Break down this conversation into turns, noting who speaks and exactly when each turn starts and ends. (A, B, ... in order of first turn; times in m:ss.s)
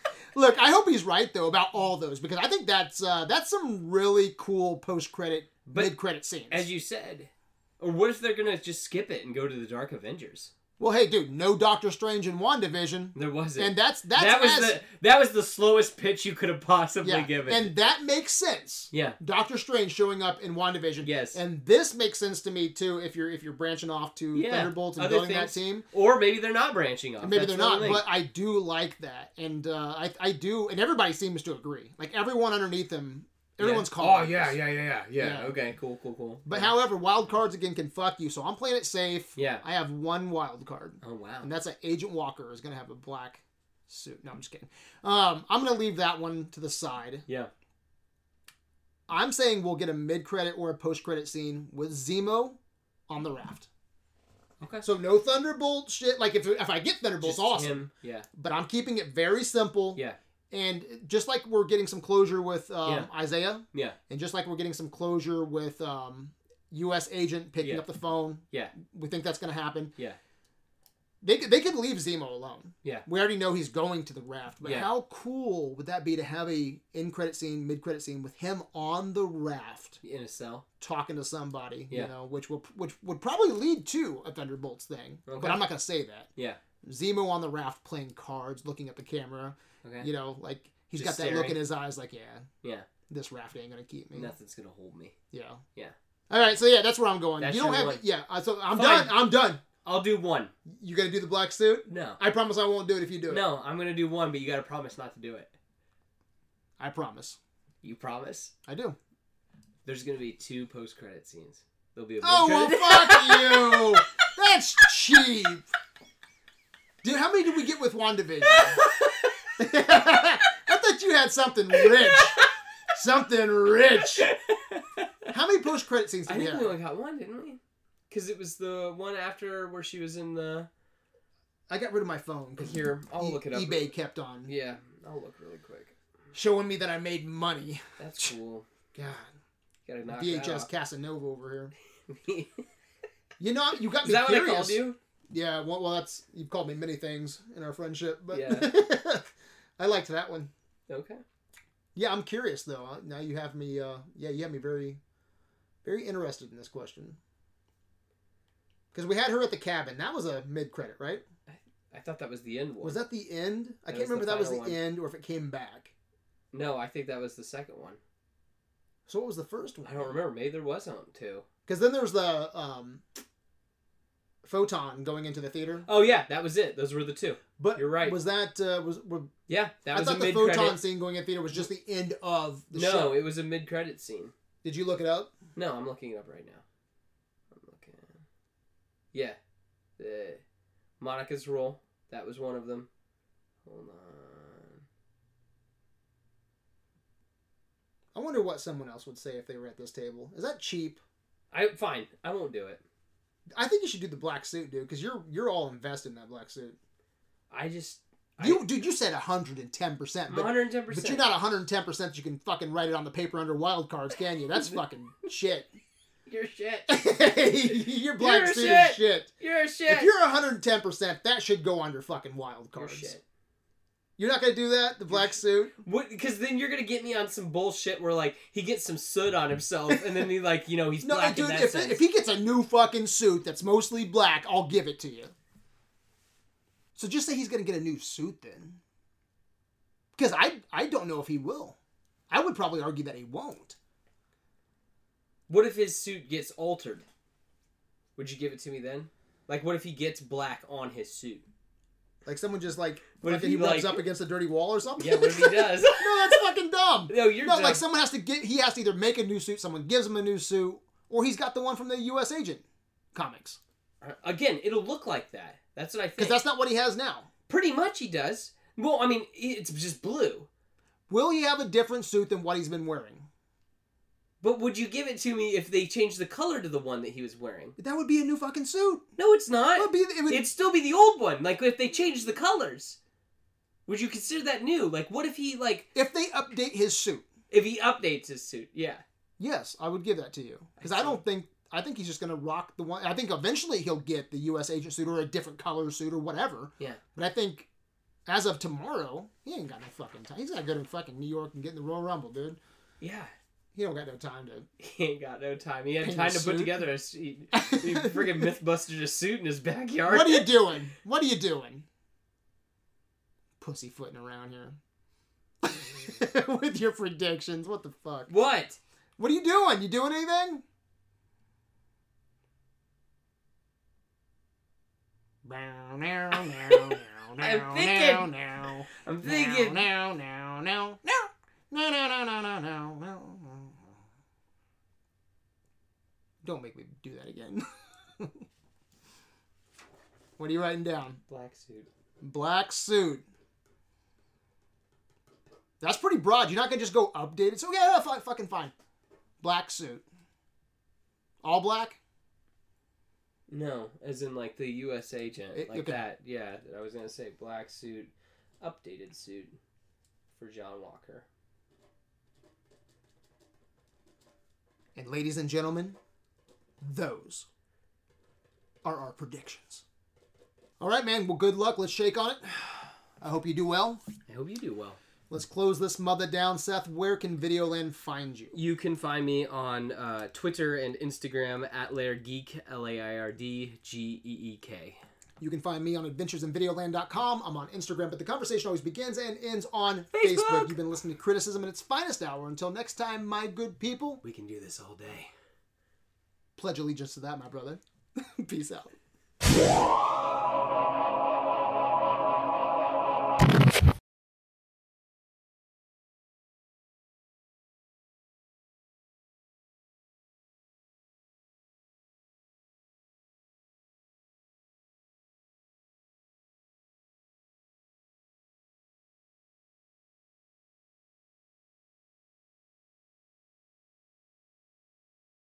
0:00.3-0:06.7 A
0:05.7-0:06.0 B
0:06.5-0:10.5 B
0:10.8-0:14.8 A
0:13.2-0:17.7 B
0:17.0-0:25.9 A
0:18.9-0:19.2 B
0:21.0-0:21.4 B
0:24.3-0:28.0 B
0:27.2-0:34.6 A
0:33.6-0:36.7 B
0:35.2-0:35.6 A
0:36.5-0:47.2 A
0:39.4-0:39.6 B
0:41.0-0:41.5 B
0:49.1-0:52.6 A
0:53.1-0:53.7 A
0:54.6-0:54.9 B
0:54.8-0:57.8 A
0:57.2-0:58.3 B
0:58.3-1:09.9 A
1:02.8-1:03.1 B
1:03.7-1:04.0 B
1:07.6-1:07.9 B
1:11.2-1:20.0 A
1:14.6-1:14.9 B
1:20.0-1:20.6 B
1:20.8-1:26.3 A
1:25.3-1:25.6 B
1:26.8-1:32.5 A
1:31.0-1:31.6 B
1:33.1-1:34.3 A
1:34.1-1:35.2 B
1:35.3-1:35.6 A
1:36.3-1:39.6 A
1:37.4-1:38.0 B
1:38.7-1:39.2 B
1:39.8-1:40.5 B
1:40.7-1:43.4 A
1:41.9-1:42.2 B
1:43.3-1:45.5 B
1:46.8-1:47.4 A
1:47.8-1:48.5 B
1:48.7-1:49.0 A
1:49.8-1:54.2 B
1:52.2-1:55.7 A
1:57.0-1:58.8 A
1:58.4-1:59.5 B
1:59.6-2:04.3 A
2:00.1-2:00.5 B
2:01.8-2:02.5 B
2:04.0-2:05.3 B
2:05.3-2:06.8 A
2:06.3-2:07.6 B
2:08.1-2:10.7 B
2:11.7-2:14.5 A
2:12.6-2:13.9 B
2:14.5-2:16.0 B
2:16.3-2:18.3 A
2:18.0-2:18.7 B
2:18.9-2:19.3 A
2:19.9-2:20.7 B
2:20.1-2:21.7 A
2:22.1-2:22.6 B
2:23.4-2:24.8 A
2:23.9-2:25.0 B
2:25.3-2:30.5 A
2:28.3-2:28.7 B
2:30.9-2:31.2 B
2:32.0-2:35.0 A
2:35.8-2:37.2 A
2:38.9-2:41.2 A
2:41.5-2:43.0 B
2:42.8-2:45.9 A
2:43.9-2:44.8 B
2:46.5-2:48.0 B
2:49.1-2:50.1 A
2:49.8-2:51.5 B
2:51.7-2:53.0 A
2:54.4-2:55.9 A
2:55.9-2:58.2 B
2:57.6-2:59.3 A
2:59.5-3:00.8 B
2:59.9-3:03.2 A
3:02.7-3:04.3 B
3:04.6-3:05.4 A
3:05.6-3:06.6 B
3:07.5-3:08.2 B
3:09.1-3:09.4 B
3:10.0-3:10.4 B
3:11.0-3:12.9 B
3:13.6-3:14.8 B
3:18.1-3:21.0 A
3:21.5-3:22.8 B
3:23.5-3:26.8 A
3:27.5-3:28.7 B
3:28.4-3:35.7 A
3:30.3-3:31.2 B
3:36.3-3:36.9 B
3:36.9-3:39.3 A
3:37.9-3:40.1 B
3:39.9-3:43.2 A
3:42.8-3:43.2 B
3:44.2-3:45.7 A
3:45.1-3:52.1 B
3:51.0-3:55.3 A
3:57.0-3:58.8 A
4:00.2-4:01.8 A
4:02.3-4:03.8 A
4:05.5-4:07.0 B
4:08.2-4:11.4 B
4:12.3-4:23.6 A
4:13.2-4:14.0 B
4:15.0-4:16.4 B
4:17.1-4:17.8 B
4:24.0-4:26.4 B
4:26.2-4:27.3 A
4:27.5-4:30.5 B
4:31.1-4:33.3 A
4:34.4-4:37.8 B
4:37.8-4:39.1 A
4:39.2-4:43.0 B
4:39.8-4:40.5 A
4:43.9-4:45.9 B
4:46.0-4:47.2 A
4:47.5-4:49.0 B
4:49.4-4:57.7 A
4:50.8-4:51.2 B
4:58.3-5:02.6 A
5:03.0-5:03.3 B
5:03.8-5:04.7 A
5:04.8-5:10.5 B
5:06.0-5:06.8 A
5:07.5-5:08.5 A
5:10.1-5:11.9 A
5:13.6-5:14.8 A
5:15.6-5:18.3 A
5:18.3-5:18.8 B
5:19.2-5:20.6 A
5:25.4-5:33.8 A
5:26.4-5:28.3 B
5:29.0-5:29.9 B
5:36.4-5:37.6 A
5:38.2-5:38.4 A
5:40.4-5:41.2 A
5:41.3-5:41.9 B
5:42.2-5:43.2 A
5:45.8-5:48.7 A
5:49.4-5:50.0 A
5:51.4-5:52.0 A
5:53.5-5:59.6 B
5:55.5-5:56.0 A
6:00.3-6:01.3 B
6:05.0-6:06.0 A
6:06.8-6:07.5 A
6:08.8-6:09.8 A
6:10.8-6:14.0 A
6:14.3-6:15.0 B
6:15.3-6:18.6 A
6:18.5-6:25.0 B
6:25.4-6:34.2 A
6:30.1-6:30.8 B
6:34.2-6:35.3 B
6:36.6-6:39.0 A